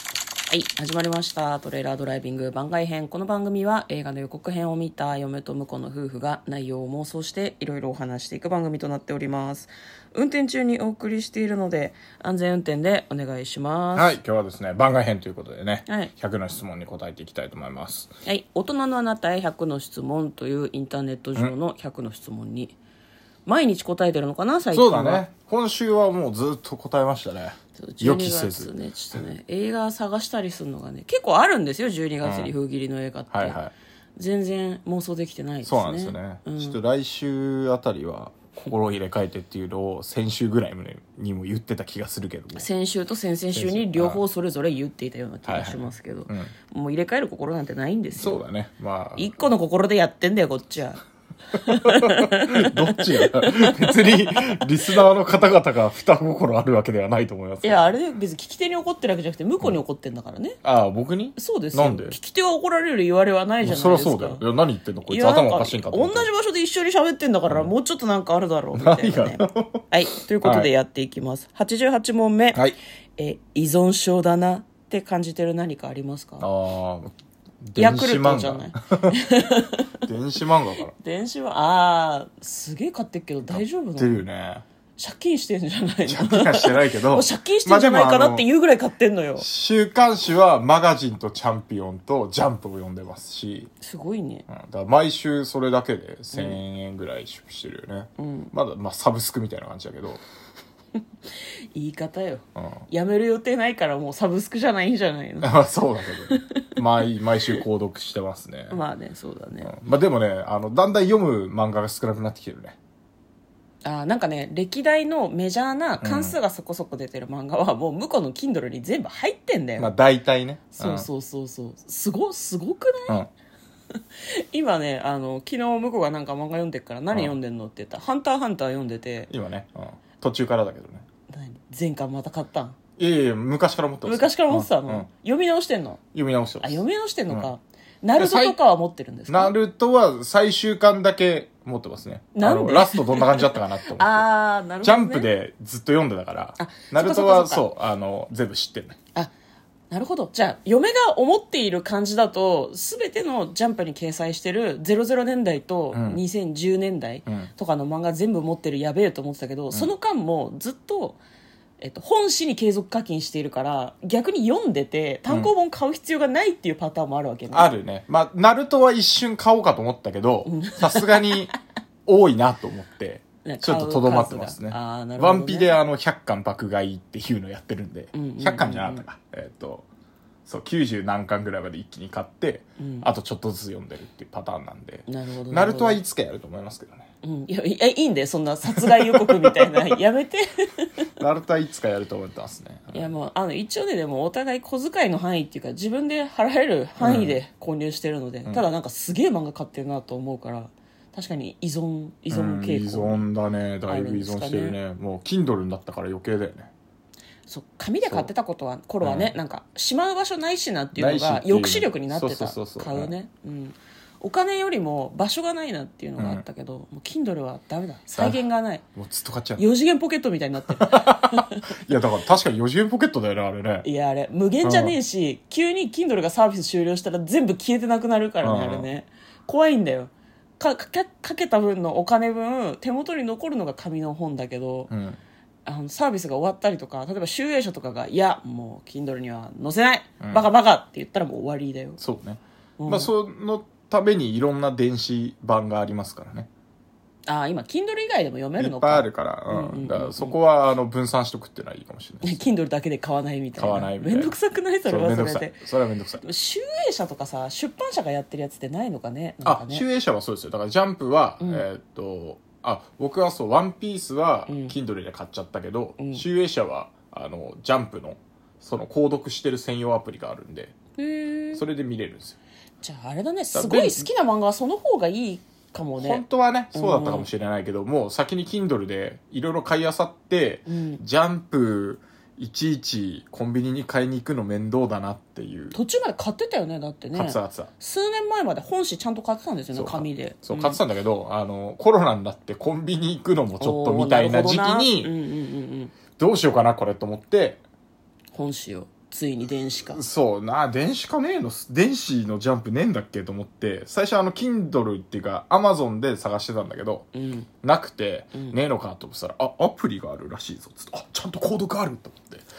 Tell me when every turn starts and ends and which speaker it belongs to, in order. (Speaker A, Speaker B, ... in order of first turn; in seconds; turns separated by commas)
Speaker A: 0.5-14.2, Speaker B: 13.9-18.1, Speaker A: 15.9-16.1, Speaker A: 18.2-22.8, Speaker A: 23.5-25.2, Speaker B: 24.7-29.2, Speaker A: 27.8-33.6, Speaker B: 32.2-32.5, Speaker B: 33.3-33.7, Speaker A: 34.2-36.8, Speaker B: 35.6-42.7, Speaker A: 42.5-48.4, Speaker B: 43.5-44.2, Speaker B: 45.5-46.5, Speaker B: 48.2-49.5, Speaker A: 49.2-51.0, Speaker A: 51.5-55.0, Speaker B: 51.8-57.9, Speaker A: 57.6-60.6, Speaker B: 60.6-62.2, Speaker A: 61.4-64.4, Speaker B: 63.6-66.3, Speaker A: 65.1-72.6, Speaker B: 68.8-69.8, Speaker B: 70.4-70.7, Speaker A: 73.2-76.5, Speaker B: 76.4-79.2, Speaker A: 77.8-80.0, Speaker B: 80.0-80.9, Speaker A: 81.0-84.2, Speaker B: 83.5-84.6, Speaker A: 85.0-89.5, Speaker B: 86.1-88.5, Speaker B: 89.4-93.7, Speaker A: 93.8-94.5, Speaker B: 94.5-100.2, Speaker A: 96.3-96.6, Speaker A: 98.2-98.5, Speaker A: 101.3-105.5, Speaker B: 102.6-102.8, Speaker B: 105.4-108.8, Speaker A: 106.3-106.7, Speaker A: 108.7-109.7, Speaker B: 109.6-112.8, Speaker A: 113.8-119.9, Speaker B: 116.0-116.4, Speaker B: 119.8-121.1, Speaker A: 120.8-123.2, Speaker A: 123.9-129.3, Speaker B: 129.3-131.1, Speaker A: 131.3-132.8, Speaker B: 133.0-135.1, Speaker A: 134.0-136.0, Speaker B: 136.1-137.5, Speaker A: 136.6-139.6, Speaker B: 138.2-138.6, Speaker B: 139.3-144.3, Speaker A: 142.3-145.3, Speaker B: 144.8-149.0, Speaker A: 146.6-147.7, Speaker A: 149.9-161.2, Speaker B: 155.9-156.2, Speaker A: 161.8-167.7, Speaker B: 167.5-171.5, Speaker A: 170.5-171.5, Speaker B: 172.1-179.9, Speaker A: 173.4-175.7, Speaker A: 178.1-179.0, Speaker B: 180.5-187.1, Speaker A: 182.8-183.1, Speaker A: 185.1-186.0, Speaker A: 187.2-190.9, Speaker B: 188.8-190.0, Speaker B: 191.2-193.1, Speaker A: 192.9-203.2, Speaker B: 197.0-197.4, Speaker B: 202.3-206.7, Speaker A: 203.9-204.8, Speaker A: 207.5-218.8, Speaker B: 208.0-208.3, Speaker B: 209.0-209.3, Speaker B: 211.0-213.1, Speaker B: 216.2-216.4, Speaker B: 218.1-218.4, Speaker B: 218.9-219.6, Speaker A: 219.6-221.7, Speaker B: 220.8-223.9, Speaker A: 223.8-234.9, Speaker B: 224.6-225.0, Speaker B: 228.4-228.9, Speaker B: 234.9-235.2, Speaker A: 235.7-242.0, Speaker B: 240.2-240.5, Speaker B: 242.0-246.5, Speaker A: 242.8-243.1, Speaker A: 247.3-250.3, Speaker B: 248.6-252.4, Speaker A: 252.2-255.7, Speaker B: 253.6-254.3, Speaker B: 254.9-256.2, Speaker A: 256.2-259.9, Speaker B: 259.4-270.8, Speaker A: 261.4-261.6, Speaker A: 264.5-264.8, Speaker A: 266.0-266.2, Speaker A: 271.0-271.6, Speaker B: 271.5-272.4, Speaker A: 272.8-276.2, Speaker B: 273.5-274.1, Speaker B: 276.0-285.8, Speaker A: 276.7-277.3, Speaker A: 280.7-281.0, Speaker A: 285.7-290.8, Speaker B: 287.1-287.7, Speaker B: 289.7-295.1, Speaker A: 293.6-295.9, Speaker B: 296.2-297.6, Speaker A: 298.3-300.0, Speaker B: 299.9-307.1, Speaker A: 307.1-307.5, Speaker B: 307.6-312.4